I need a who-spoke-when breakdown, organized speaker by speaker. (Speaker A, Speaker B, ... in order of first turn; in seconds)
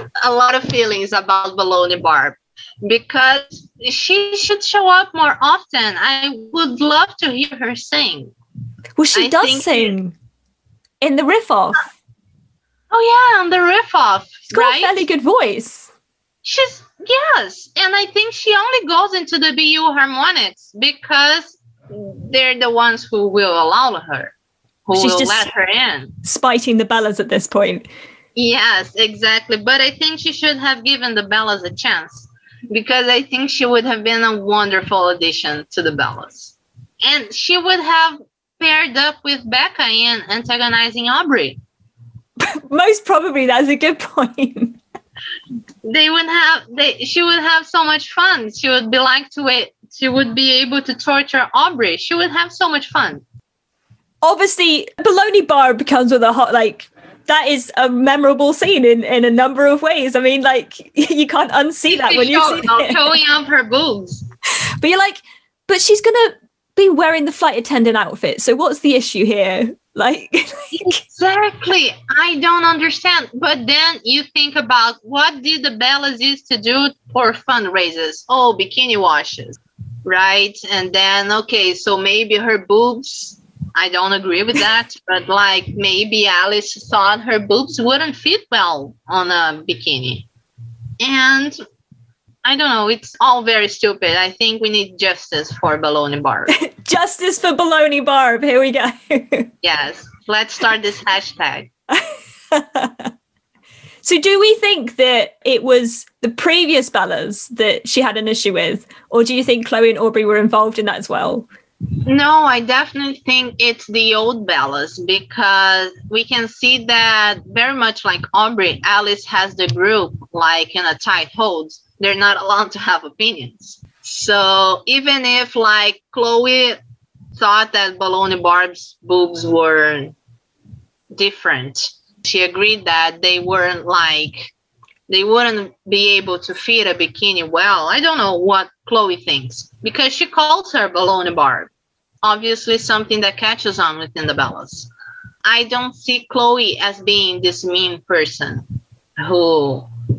Speaker A: 0.2-8.3, 9.1-9.9, 12.9-15.0, 16.4-24.3, 24.9-26.1, 28.4-41.6, 45.8-53.2, 61.9-64.2, 70.8-90.3, 91.0-91.6, 92.4-96.5, 99.6-101.7, 112.1-126.8, 127.4-130.2, 131.1-134.5, 135.1-141.7, 142.2-144.9, 145.4-148.6, 149.2-149.9
Speaker B: 9.0-10.2, 11.0-11.9, 14.5-15.9, 24.9-25.5, 26.2-27.9, 42.4-44.8, 54.2-63.0, 64.8-71.0, 96.5-99.5, 101.9-103.1, 104.0-111.5